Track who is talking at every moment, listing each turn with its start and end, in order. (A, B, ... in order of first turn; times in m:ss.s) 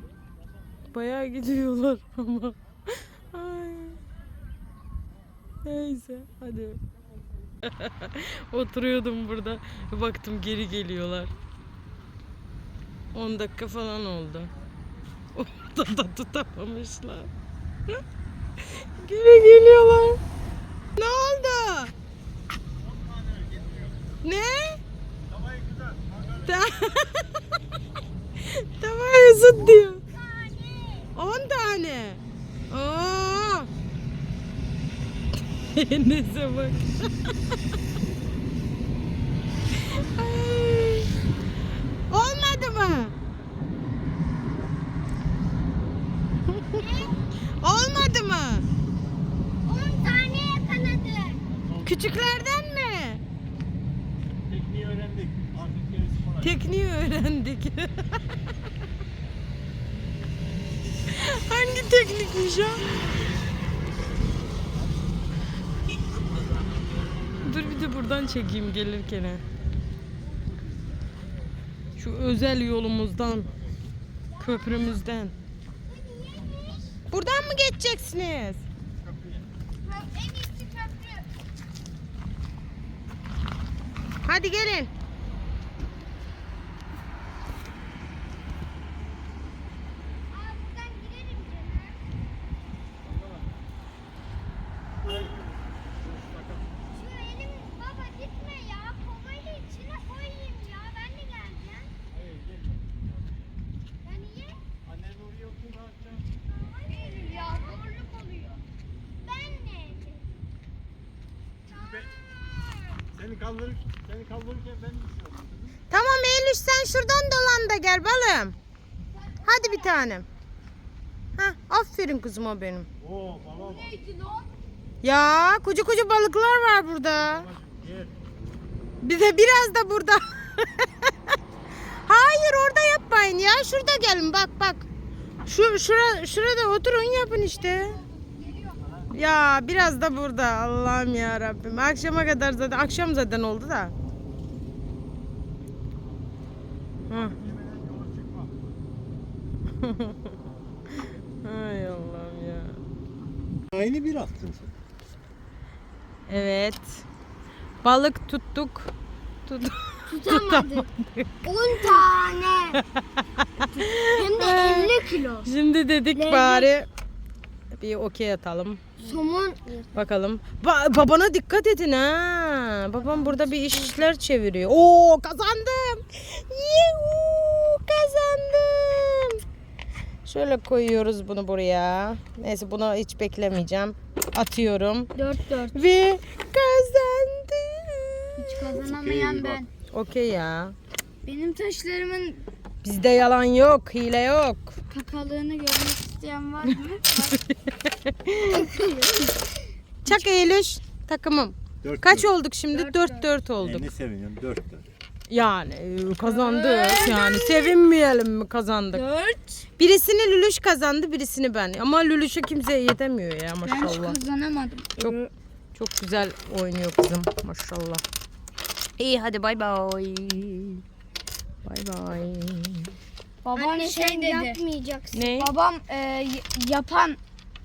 0:00.9-0:04.0 A
0:05.6-0:06.8 A
0:07.6-0:11.3 A
0:13.1-0:14.5 A
0:15.4-0:17.3 A
0:18.7-0:20.2 A
0:21.0-0:21.9 A
0:22.7-0:24.0 B
0:24.2-0:24.8 A
0:25.3-0:26.9 B
0:26.5-0:27.4 A
0:28.4-0:30.0 A
0:29.5-0:31.1 C
0:31.2-0:33.7 A
0:35.7-0:37.1 A
0:39.9-0:41.1 A
0:42.1-0:43.1 A
0:46.6-0:47.2 C
0:47.5-0:48.6 A
0:49.6-0:51.4 C
0:51.5-0:52.2 B
0:51.8-0:53.2 A
0:54.4-0:56.6 B
0:56.4-0:58.1 A
1:01.1-1:03.0 A
1:06.4-1:06.8 B
1:07.4-1:09.4 A
1:12.0-1:13.5 A
1:14.4-1:15.3 A
1:15.9-1:17.0 C
1:17.1-1:18.6 A
1:19.0-1:19.4 B
1:19.8-1:21.2 C
1:24.2-1:24.9 A
1:30.3-1:32.0 C
1:33.0-1:33.6 B
1:35.0-1:36.7 B
1:36.9-1:41.9 C
1:42.1-1:43.5 B
1:44.0-1:44.6 C
1:44.8-1:46.3 B
1:46.4-1:48.6 C
1:49.2-1:50.2 C
1:51.7-1:53.0 C
1:51.7-1:52.1 B
1:53.1-1:55.8 B
1:55.9-1:58.5 A
1:59.4-2:00.0 C
1:59.4-2:00.2 A
2:01.4-2:02.9 A
2:03.0-2:03.9 B
2:03.6-2:04.4 D
2:05.0-2:07.5 A
2:07.3-2:08.2 B
2:09.0-2:11.1 A
2:12.0-2:14.8 A
2:15.4-2:18.0 A
2:18.4-2:18.8 D
2:19.1-2:23.9 A
2:27.1-2:27.4 A
2:27.1-2:28.6 B
2:29.8-2:30.2 A
2:31.4-2:32.8 A
2:33.7-2:34.7 B
2:36.3-2:37.0 A
2:37.8-2:38.9 A
2:39.5-2:41.5 A
2:40.1-2:40.8 C
2:41.4-2:42.8 C
2:43.8-2:46.9 A
2:43.8-2:45.5 C
2:46.2-2:46.7 C
2:47.7-2:48.8 A
2:49.0-2:49.9 C
2:49.9-2:59.4 A
3:00.2-3:05.1 A
3:05.2-3:05.7 D
3:05.7-3:08.7 A
3:08.4-3:09.7 D
3:08.8-3:09.6 B
3:09.9-3:10.7 A
3:11.2-3:12.4 D
3:12.8-3:14.7 A
3:14.9-3:17.4 D
3:17.4-3:18.7 A
3:18.8-3:19.3 C
3:20.0-3:23.9 A
3:21.8-3:22.3 B
3:22.7-3:23.2 D
3:23.6-3:24.8 B
3:25.3-3:29.0 A
3:26.3-3:27.7 D
3:28.9-3:29.6 D
3:29.8-3:34.2 A
3:33.6-3:35.3 D
3:35.7-3:38.0 A
3:39.0-3:40.8 A
3:41.6-3:42.9 A
3:43.4-3:44.6 D
3:43.5-3:45.3 C
3:45.1-3:45.5 A
3:45.4-3:47.2 D